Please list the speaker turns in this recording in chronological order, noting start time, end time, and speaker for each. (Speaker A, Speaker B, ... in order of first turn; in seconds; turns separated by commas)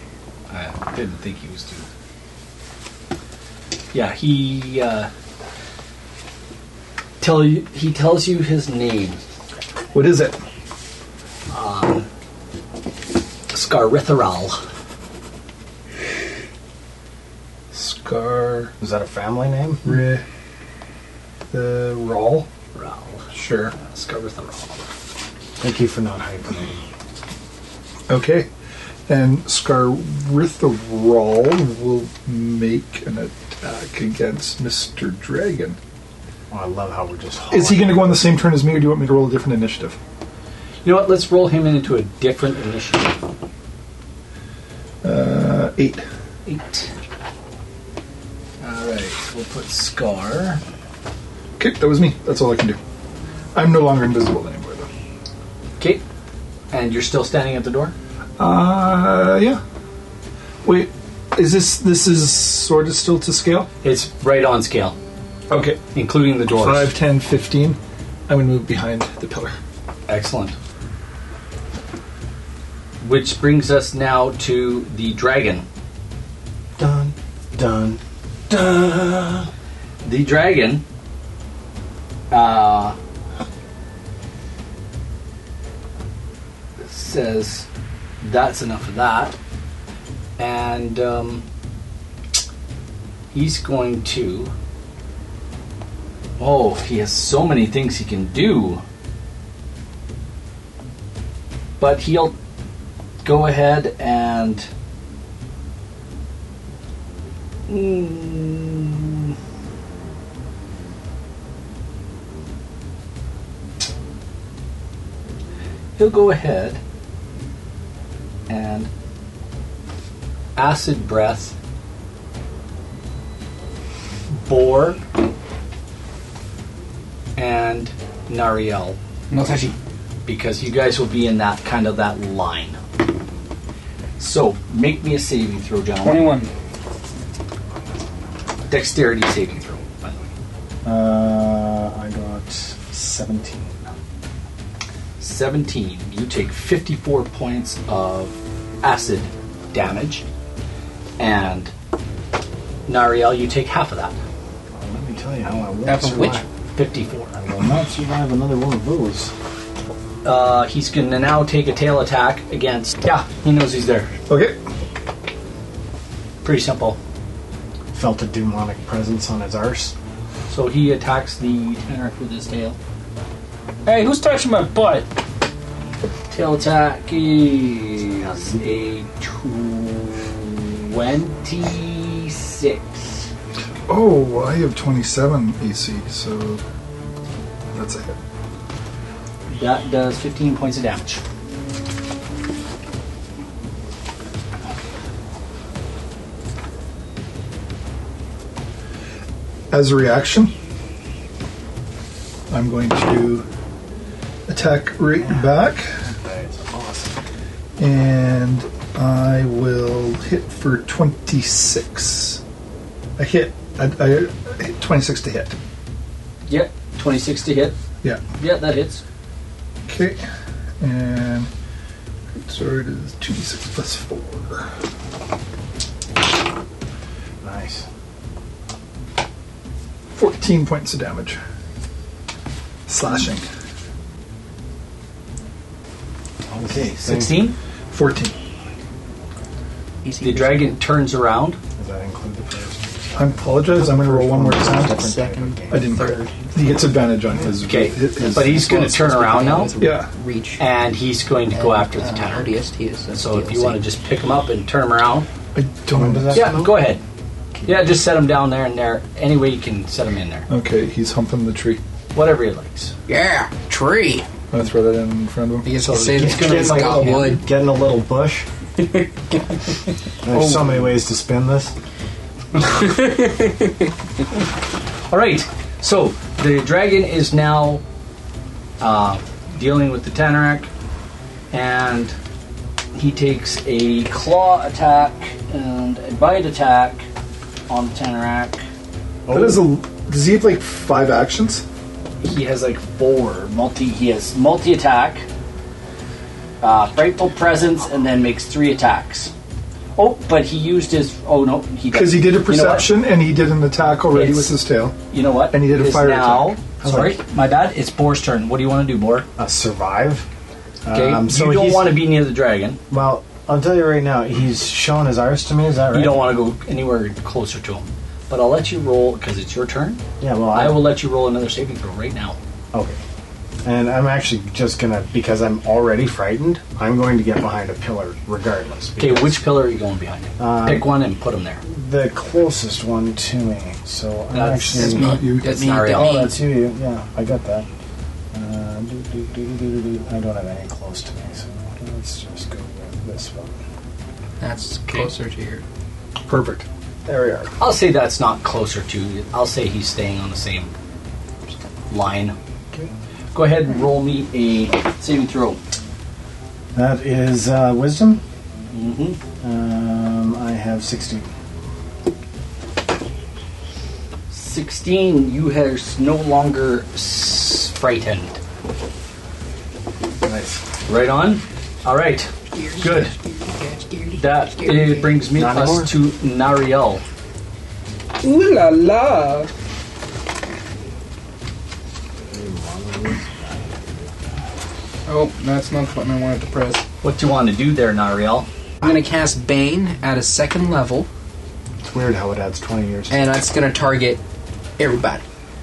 Speaker A: 0.5-1.9, Speaker A: 3.9-5.1, Speaker A: 7.2-9.2, Speaker B: 9.9-10.4, Speaker A: 11.5-12.1, Speaker A: 13.5-14.6, Speaker B: 17.7-18.7, Speaker C: 18.8-20.0, Speaker B: 19.8-20.2, Speaker B: 21.5-22.5, Speaker A: 22.7-24.8, Speaker B: 23.3-23.7, Speaker C: 25.6-26.8, Speaker B: 28.1-28.5, Speaker B: 29.1-35.8, Speaker C: 36.5-38.4, Speaker B: 37.5-40.0, Speaker A: 40.8-43.2, Speaker B: 45.0-46.0, Speaker A: 46.5-46.9, Speaker A: 48.6-50.6, Speaker B: 51.6-52.8, Speaker B: 53.5-54.9, Speaker A: 56.7-57.9, Speaker B: 58.4-59.6, Speaker B: 60.6-63.7, Speaker A: 63.8-65.0, Speaker B: 65.5-65.8, Speaker A: 65.9-66.9, Speaker B: 66.5-69.5, Speaker A: 70.1-70.5, Speaker A: 73.0-75.7, Speaker C: 76.8-79.5, Speaker A: 80.0-80.8, Speaker A: 82.3-83.0, Speaker A: 86.8-87.7, Speaker A: 88.2-89.3, Speaker A: 90.4-91.5, Speaker A: 93.3-94.5, Speaker A: 96.4-98.8, Speaker A: 101.8-102.3, Speaker A: 103.2-104.7, Speaker A: 107.7-109.3, Speaker A: 116.0-116.8, Speaker A: 118.5-118.9, Speaker A: 120.5-121.5, Speaker A: 124.3-125.0, Speaker A: 127.3-129.0, Speaker D: 129.3-129.8, Speaker A: 130.2-132.8, Speaker A: 134.2-136.2, Speaker D: 136.0-136.5, Speaker A: 138.7-140.3, Speaker C: 140.8-143.8, Speaker A: 145.2-150.2, Speaker A: 151.2-151.7, Speaker A: 152.9-154.2, Speaker C: 154.7-156.4, Speaker D: 155.8-156.4, Speaker A: 156.7-157.3, Speaker C: 157.3-159.3, Speaker A: 160.2-164.1, Speaker B: 164.3-164.6, Speaker A: 166.4-167.0, Speaker C: 167.9-169.9, Speaker A: 170.5-172.8, Speaker D: 173.8-175.0, Speaker A: 176.3-183.3, Speaker C: 178.2-178.5, Speaker B: 183.9-186.6, Speaker B: 187.7-188.2, Speaker A: 189.5-191.2, Speaker B: 199.7-200.5, Speaker B: 202.5-203.4, Speaker B: 204.5-205.9, Speaker C: 205.2-207.2, Speaker B: 207.8-212.4, Speaker B: 213.2-215.6, Speaker A: 216.5-217.8, Speaker A: 218.3-219.0, Speaker B: 219.9-220.2, Speaker B: 220.8-221.5, Speaker B: 222.4-224.7, Speaker C: 227.4-227.8, Speaker B: 230.1-231.4, Speaker B: 232.9-233.4, Speaker C: 236.5-237.5, Speaker A: 236.7-237.6, Speaker B: 237.9-238.3, Speaker D: 240.0-240.8, Speaker A: 240.2-241.6, Speaker C: 241.8-246.1, Speaker B: 243.2-245.1, Speaker D: 244.6-246.5, Speaker B: 245.7-249.0, Speaker A: 247.6-249.7, Speaker D: 248.2-250.6, Speaker B: 249.8-250.1, Speaker A: 250.6-252.5, Speaker D: 251.5-253.8, Speaker A: 253.1-255.3, Speaker B: 255.5-256.6, Speaker C: 255.9-256.9, Speaker A: 256.3-257.0, Speaker C: 257.5-257.9, Speaker A: 257.6-260.5, Speaker B: 260.5-261.8, Speaker A: 262.1-262.9, Speaker D: 263.1-264.2, Speaker B: 264.5-265.7, Speaker D: 265.6-267.4, Speaker A: 265.8-267.4, Speaker C: 266.1-268.5, Speaker D: 268.8-269.4, Speaker C: 270.2-271.7, Speaker D: 272.6-273.7, Speaker A: 275.1-277.8, Speaker A: 278.8-280.7, Speaker A: 281.5-282.1, Speaker A: 282.9-287.0, Speaker A: 287.7-288.6, Speaker C: 289.2-289.6, Speaker B: 289.3-291.6, Speaker A: 292.2-295.2, Speaker A: 296.6-299.3, Speaker A: 299.9-302.9, Speaker B: 301.9-305.0, Speaker A: 304.1-304.5, Speaker A: 305.1-309.2, Speaker B: 305.5-306.6, Speaker C: 306.8-307.2, Speaker C: 309.4-310.2, Speaker C: 310.8-312.0, Speaker A: 310.9-312.8, Speaker C: 312.9-316.2, Speaker A: 315.9-320.0, Speaker C: 320.2-320.9, Speaker A: 320.5-322.4, Speaker C: 322.7-323.0, Speaker C: 323.6-329.4, Speaker A: 329.0-331.6, Speaker C: 330.4-330.9, Speaker C: 331.6-335.2, Speaker A: 334.3-336.3, Speaker D: 334.8-336.4, Speaker B: 334.8-335.8, Speaker C: 335.8-337.7, Speaker C: 338.3-343.6, Speaker D: 344.4-345.6, Speaker B: 346.3-346.6, Speaker C: 347.0-347.5, Speaker A: 347.6-350.7, Speaker A: 351.9-352.4, Speaker A: 353.3-355.6, Speaker C: 356.7-358.2, Speaker A: 358.7-359.2, Speaker C: 359.4-361.3, Speaker A: 364.3-368.4, Speaker C: 370.2-370.6, Speaker A: 370.9-373.1, Speaker D: 372.5-375.2, Speaker A: 374.1-377.0, Speaker C: 375.3-375.9, Speaker D: 378.2-379.5, Speaker C: 382.3-384.0, Speaker D: 385.1-386.8, Speaker A: 387.0-388.5, Speaker D: 388.8-391.1, Speaker C: 391.8-393.2, Speaker D: 393.1-394.2, Speaker D: 394.8-395.2